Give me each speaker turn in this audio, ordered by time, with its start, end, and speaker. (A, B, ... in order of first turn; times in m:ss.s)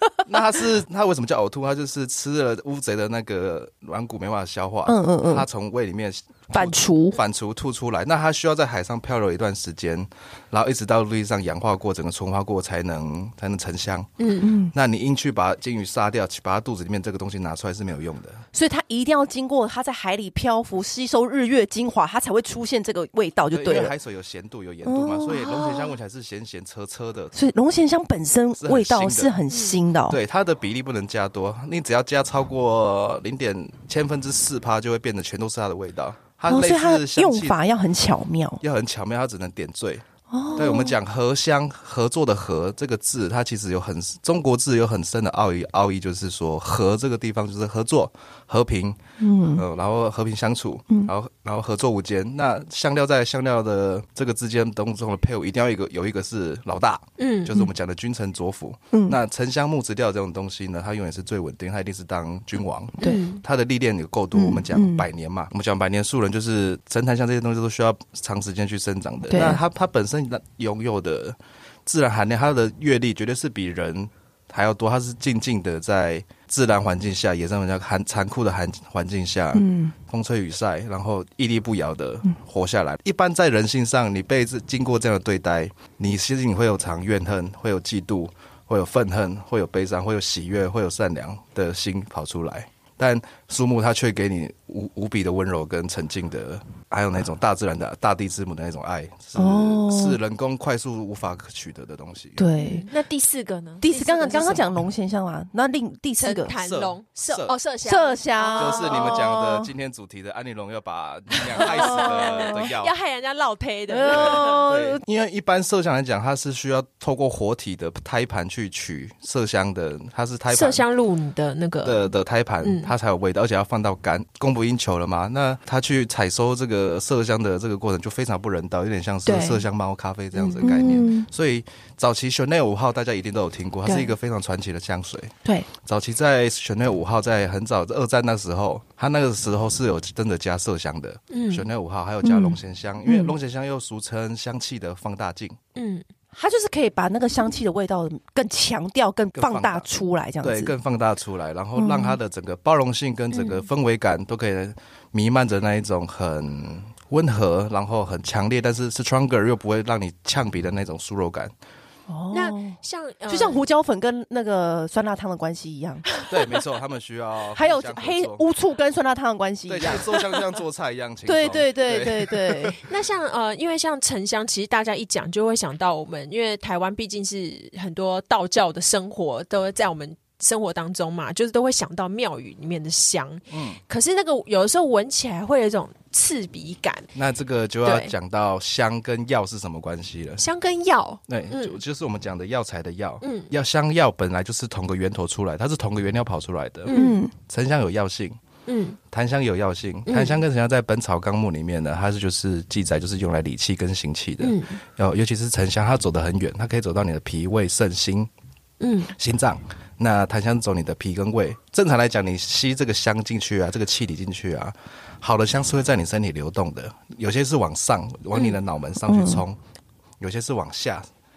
0:00.2-0:14.1 A
0:04.8-0:05.4 B
0:06.5-0:07.2 B
0:14.2-0:14.5 C
0:14.4-0:14.7 B
0:14.7-0:18.4 A
0:18.5-0:23.9 B
0:23.5-0:27.3 A
0:24.8-0:25.9 B
0:27.3-0:30.2 B
0:28.6-0:29.3 A
0:29.5-0:29.8 C
0:30.1-0:37.6 A
0:36.5-0:38.6 B
0:38.6-0:49.0 A
0:40.3-0:40.9 B
0:49.2-0:49.6 B
0:49.5-1:42.4 A
0:57.2-0:57.7 C
0:58.9-0:59.2 B
1:03.0-1:03.4 C
1:04.3-1:05.0 B
1:09.3-1:09.6 B
1:19.5-1:19.9 B
1:39.4-1:40.2 B
1:42.4-1:42.8 B
1:42.6-1:44.7 C
1:43.8-1:46.5 B
1:46.2-1:49.3 C
1:46.5-1:47.5 A
1:47.8-1:49.7 B
1:48.6-1:52.9 A
1:51.3-1:54.7 C
1:51.6-1:52.7 B
1:53.9-1:55.0 B
1:54.1-2:00.8 A
2:00.5-2:02.1 C
2:01.8-2:25.6 A
2:02.6-2:02.9 C
2:09.2-2:09.6 B
2:10.3-2:10.8 C
2:10.6-2:11.3 B
2:13.8-2:14.1 B
2:21.3-2:21.7 C
2:22.2-2:23.3 B
2:25.8-2:26.0 C
2:26.3-2:30.7 B
2:29.4-2:29.9 A
2:30.4-2:41.5 A
2:31.8-2:32.2 B
2:33.3-2:33.6 C
2:42.1-2:42.8 B
2:42.3-2:43.6 C
2:43.3-2:46.1 B
2:46.3-2:48.4 A
2:47.5-2:50.3 B
2:49.7-2:52.8 A
2:51.2-2:52.7 B
2:52.8-3:07.1 C
3:03.5-3:03.8 A
3:07.1-3:10.4 A
3:07.8-3:08.1 C
3:10.4-3:11.8 C
3:11.3-3:18.4 A
3:13.2-3:13.5 C
3:16.9-3:17.2 C
3:16.9-3:17.3 B
3:18.7-3:19.0 C
3:19.1-3:28.3 A
3:20.1-3:20.4 C
3:24.4-3:24.8 C
3:28.8-3:29.1 C
3:29.1-3:39.6 A
3:39.1-3:39.4 B
3:40.2-3:41.1 A